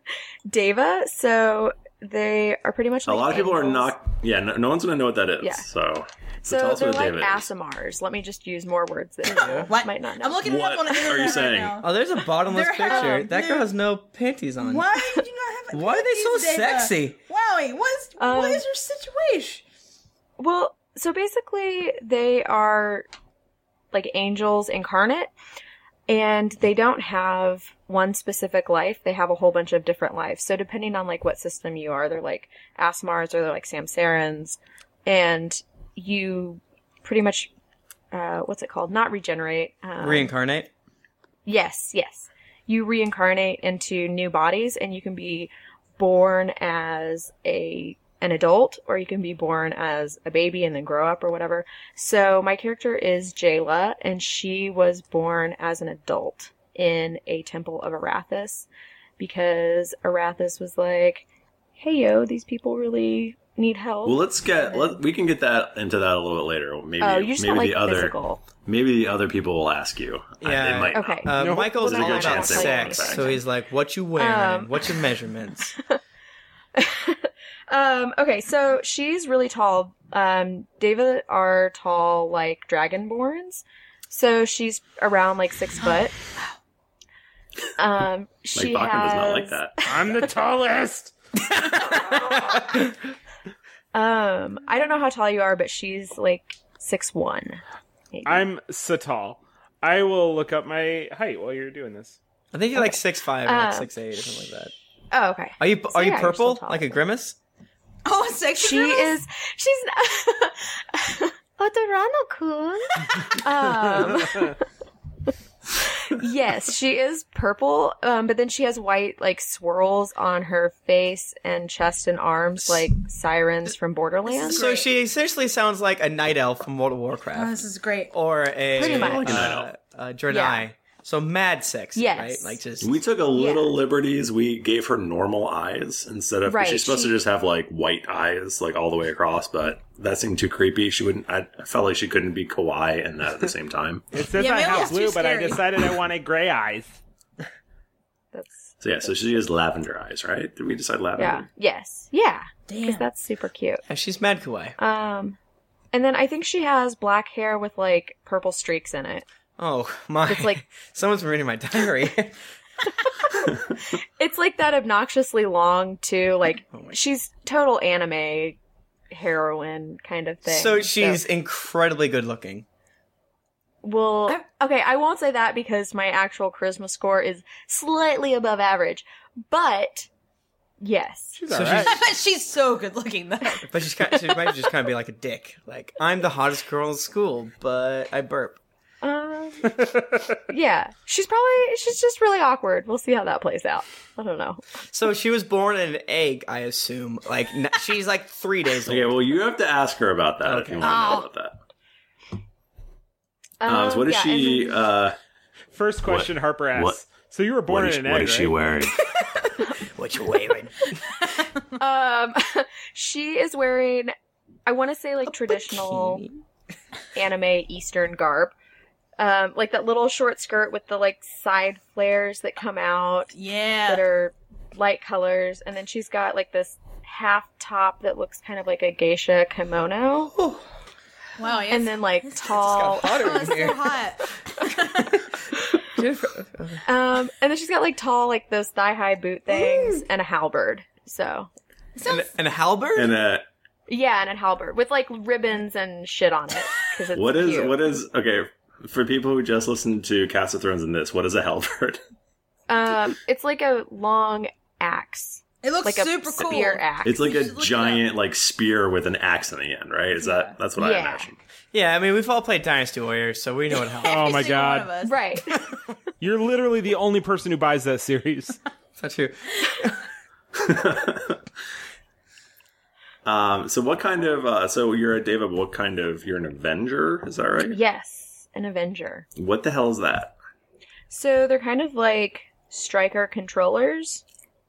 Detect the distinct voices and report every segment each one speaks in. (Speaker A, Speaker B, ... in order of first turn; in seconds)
Speaker A: 0.5-3.9, 6.5-10.4, 12.9-13.3, 18.2-18.6, 20.4-23.1, 23.9-25.3, 26.1-37.5, 38.1-40.3, 41.5-58.7, 59.2-61.2, 61.8-65.0, 67.0-68.4, 70.9-73.4, 74.2-75.0, 76.8-86.2, 87.8-90.1, 91.8-92.8, 93.9-97.6, 98.1-98.5, 103.4-103.9, 105.1-107.0, 108.6-114.6, 115.8-124.6, 128.8-129.5, 130.3-130.6, 131.9-132.6, 133.3-133.8, 136.5-137.2, 148.3-149.4, 151.2-153.8, 154.8-155.4, 155.9-159.2, 160.2-160.6, 163.2-168.6, 169.1-171.2, 173.8-180.1, 180.8-181.4, 189.0-189.9, 190.5-194.6, 203.6-204.8, 211.8-214.1, 214.7-216.2, 217.1-218.5, 219.2-230.3, 231.6-233.4, 236.8-241.5, 243.9-247.8, 252.7-257.2, 260.8-261.3, 265.0-265.7, 277.7-279.2, 281.1-284.2
Speaker B: 3.0-7.5, 10.4-11.8, 64.0-73.3, 88.5-90.1, 128.8-129.7, 132.8-144.1, 148.8-151.4, 198.8-201.6, 203.6-205.2, 206.0-207.0, 207.7-209.0, 242.9-243.4, 247.1-252.0, 256.4-261.4, 270.5-271.4, 273.2-277.8, 279.4-280.3
Speaker C: 9.3-9.7, 11.8-14.9, 15.7-17.1, 40.0-40.7, 70.4-75.7, 92.0-92.8, 102.5-104.7, 105.6-107.4, 124.4-127.6, 128.1-133.0, 153.9-154.8, 159.6-162.3, 170.4-172.6, 181.5-181.9, 183.7-188.6, 194.9-199.3, 200.4-200.9, 209.1-211.1, 215.3-216.4, 230.3-230.6, 232.5-233.9, 235.9-236.8, 239.5-240.0, 242.1-243.1, 261.7-264.3, 269.0-270.0
Speaker D: 9.3-13.7, 14.6-19.6, 108.0-109.2, 124.2-124.9, 127.3-128.1, 144.3-145.6, 152.7-153.1, 181.8-184.6, 200.8-201.2, 223.3-224.1, 231.4-235.2, 241.9-242.3, 255.6-258.0, 260.2-260.6, 263.8-265.2
Speaker E: 71.4-71.8, 89.8-91.1, 98.2-102.2, 144.1-147.0, 181.3-182.0, 205.7-208.5, 264.0-264.9, 266.2-268.6